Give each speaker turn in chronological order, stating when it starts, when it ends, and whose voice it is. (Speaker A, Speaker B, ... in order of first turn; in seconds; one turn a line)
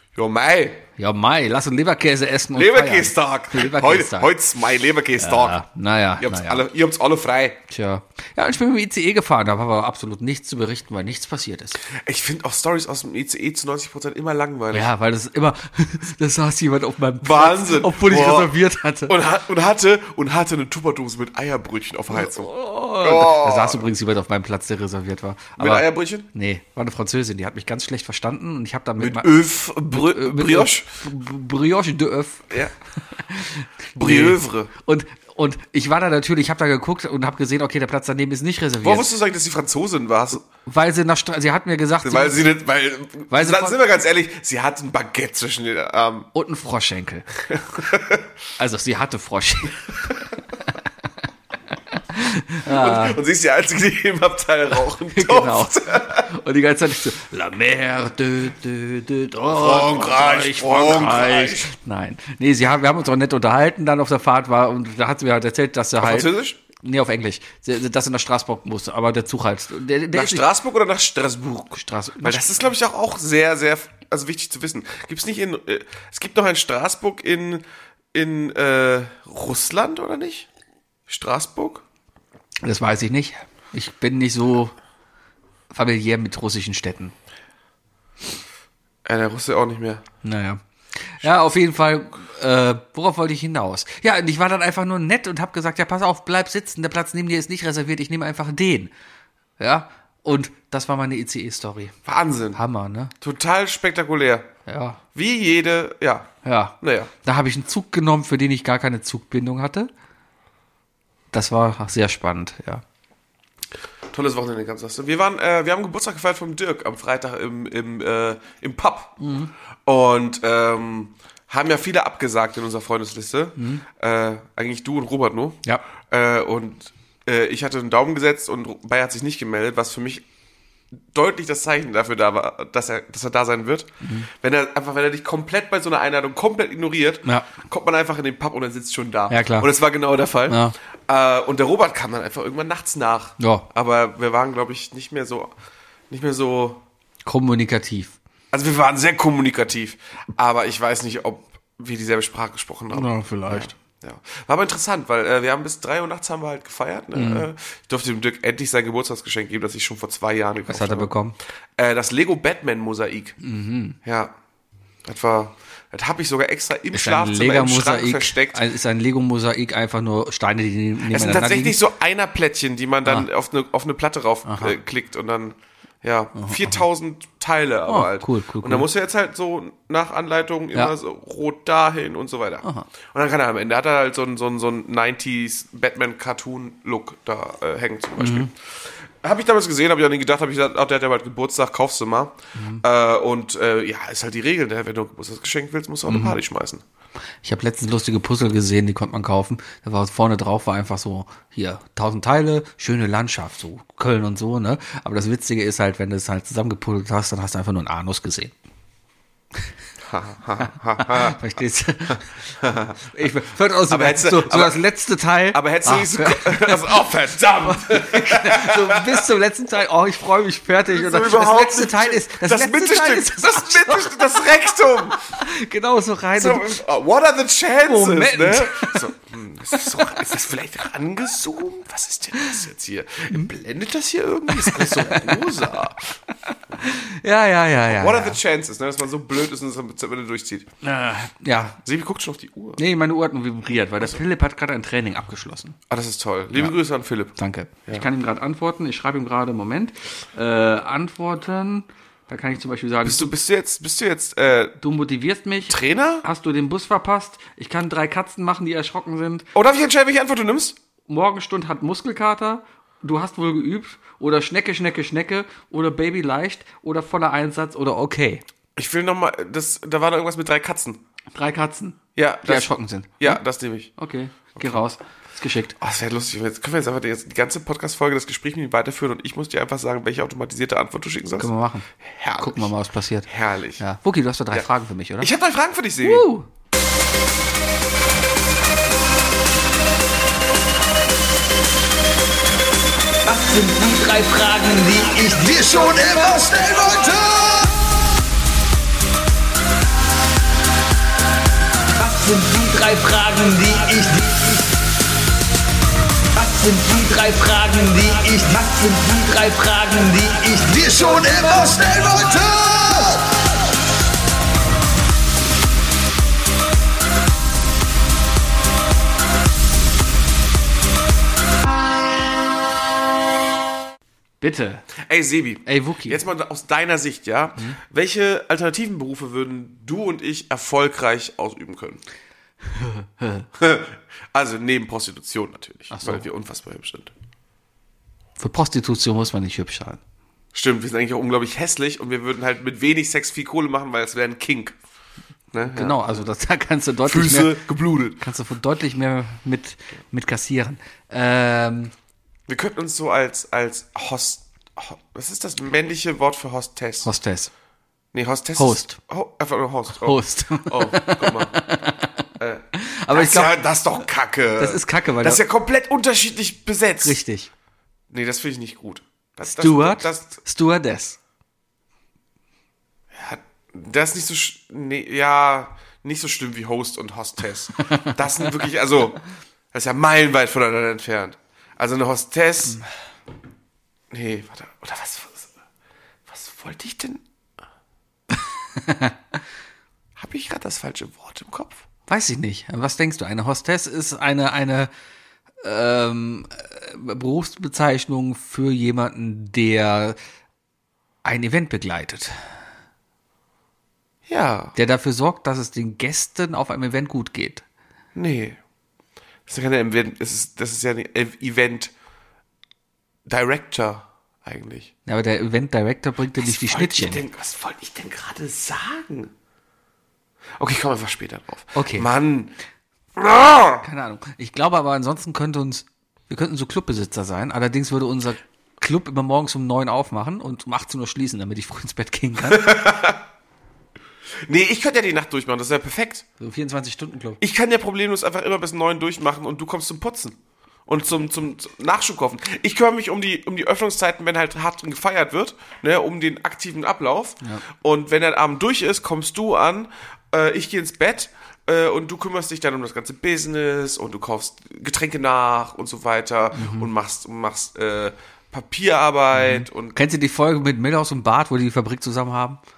Speaker A: 0.1-0.9
Speaker B: 1.0-4.3
Speaker A: 2.5-5.6
Speaker B: 5.2-6.7
Speaker A: 6.2-7.6
Speaker B: 7.7-11.8
Speaker A: 11.9-14.9
Speaker B: 14.7-19.1
Speaker A: 17.2-23.9
Speaker B: 22.1-29.3
Speaker A: 25.6-26.3
Speaker A: 29.0-30.9
Speaker B: 29.9-39.1
Speaker A: 34.0-34.7
Speaker A: 38.8-40.4
Speaker B: 40.6-42.5
Speaker A: 42.0-46.3
Speaker B: 43.3-43.8
Speaker B: 46.3-47.3
Speaker A: 47.5-48.3
Speaker B: 48.6-50.4
Speaker B: 51.9-53.2
Speaker A: 52.6-56.3
Speaker B: 55.1-70.5
Speaker A: 59.5-61.7
Speaker A: 66.0-66.6
Speaker A: 70.1-80.5
Speaker B: 71.7-72.7
Speaker A: 81.1-81.8
Speaker B: 82.6-84.7
Speaker B: 85.7-87.1
Speaker A: 89.0-90.0
Speaker B: 90.2-98.9
Speaker B: 99.6-102.0
Speaker A: 102.1-102.6
Speaker B: 102.5-103.1
Speaker A: 103.2-104.5
Speaker B: 104.7-105.0
Speaker A: 105.2-107.1
Speaker B: 106.4-109.9
Speaker B: 111.3-112.8
Speaker A: 114.1-119.2
Speaker B: 119.2-119.5
Speaker A: 119.8-130.2
Speaker B: 123.6-123.8
Speaker A: 131.1-145.5
Speaker B: 134.0-134.3
Speaker B: 137.2-137.5
Speaker B: 139.3-139.7
Speaker B: 140.5-140.8
Speaker B: 143.4-143.7
Speaker A: 146.1-146.8
Speaker B: 147.2-148.2
Speaker A: 148.5-161.1
Speaker B: 152.9-153.7
Speaker B: 157.1-157.5
Speaker B: 160.7-161.4
Speaker A: 161.8-163.4
Speaker B: 163.4-164.0
Speaker A: 164.0-164.3
Speaker A: 165.1-168.6
Speaker B: 166.9-171.8
Speaker A: 171.1-188.5
Speaker B: 174.5-174.8
Speaker B: 176.3-176.8
Speaker B: 177.9-178.9
Speaker B: 188.2-188.5
Speaker A: 189.2-196.8
Speaker B: 192.6-192.8
Speaker B: 196.1-196.4
Speaker B: 197.4-208.5
Speaker A: 210.1-211.4
Speaker B: 210.7-217.1
Speaker A: 212.6-213.0
Speaker A: 213.9-214.8
Speaker A: 215.5-219.3
Speaker B: 217.7-226.8
Speaker A: 220.9-225.2
Speaker A: 226.3-236.0
Speaker B: 227.8-229.1
Speaker B: 229.8-230.2
Speaker B: 234.5-235.7
Speaker B: 236.5-238.4
Speaker A: 237.9-240.7
Speaker B: 240.8-241.8
Speaker A: 241.8-242.8
Speaker B: 242.8-245.8
Speaker A: 245.9-247.3
Speaker B: 247.4-253.3
Speaker A: 253.0-254.8
Speaker B: 254.8-259.5
Speaker A: 255.7-256.2
Speaker A: 259.5-260.8
Speaker B: 261.1-268.4
Speaker A: 268.8-271.0
Speaker B: 271.3-273.4
Speaker A: 272.2-273.9
Speaker B: 274.0-275.8
Speaker A: 274.6-274.8
Speaker A: 275.8-281.5
Speaker B: 281.4-285.3
Speaker A: 282.0-282.7
Speaker A: 283.3-283.8
Speaker A: 285.2-286.3
Speaker B: 286.0-286.5
Speaker C: 293.2-297.8
Speaker C: 302.0-304.7
Speaker C: 306.3-313.4
Speaker B: 324.4-324.9
Speaker A: 325.0-332.0
Speaker B: 325.7-326.2
Speaker B: 332.7-333.5
Speaker A: 333.6-337.1
Speaker B: 335.9-336.2
Speaker B: 338.4-340.0
Speaker A: 340.5-344.8
Speaker A: 345.5-346.2
Speaker B: 345.6-347.6
Speaker A: 347.1-348.2
Speaker B: 348.2-351.9
Speaker A: 352.5-357.1
Speaker B: 357.0-357.5
Speaker A: 358.1-361.6
Speaker B: 358.6-359.0
Speaker B: 360.0-363.6
Speaker A: 362.4-367.2
Speaker B: 364.6-365.4
Speaker B: 367.0-367.5
Speaker A: 368.1-370.4
Speaker B: 369.5-371.2
Speaker A: 373.1-379.2
Speaker B: 377.9-378.6
Speaker A: 379.7-382.8
Speaker A: 384.1-385.5
Speaker A: 386.3-387.2
Speaker B: 388.8-389.2
Speaker A: 390.2-391.8
Speaker B: 392.1-394.9
Speaker B: 395.6-400.2
Speaker B: 401.2-402.4
Speaker A: 404.3-404.8
Speaker B: 404.8-407.6
Speaker A: 408.1-408.6
Speaker A: 409.5-411.9
Speaker A: 413.3-414.9
Speaker B: 415.1-417.2
Speaker A: 416.4-419.3
Speaker A: 420.6-422.5
Speaker B: 421.7-422.1
Speaker A: 423.1-423.8
Speaker B: 423.8-432.8
Speaker A: 432.5-433.2
Speaker A: 434.5-436.3
Speaker B: 436.4-437.4
Speaker A: 437.4-460.0
Speaker B: 456.6-456.9
Speaker B: 459.3-462.6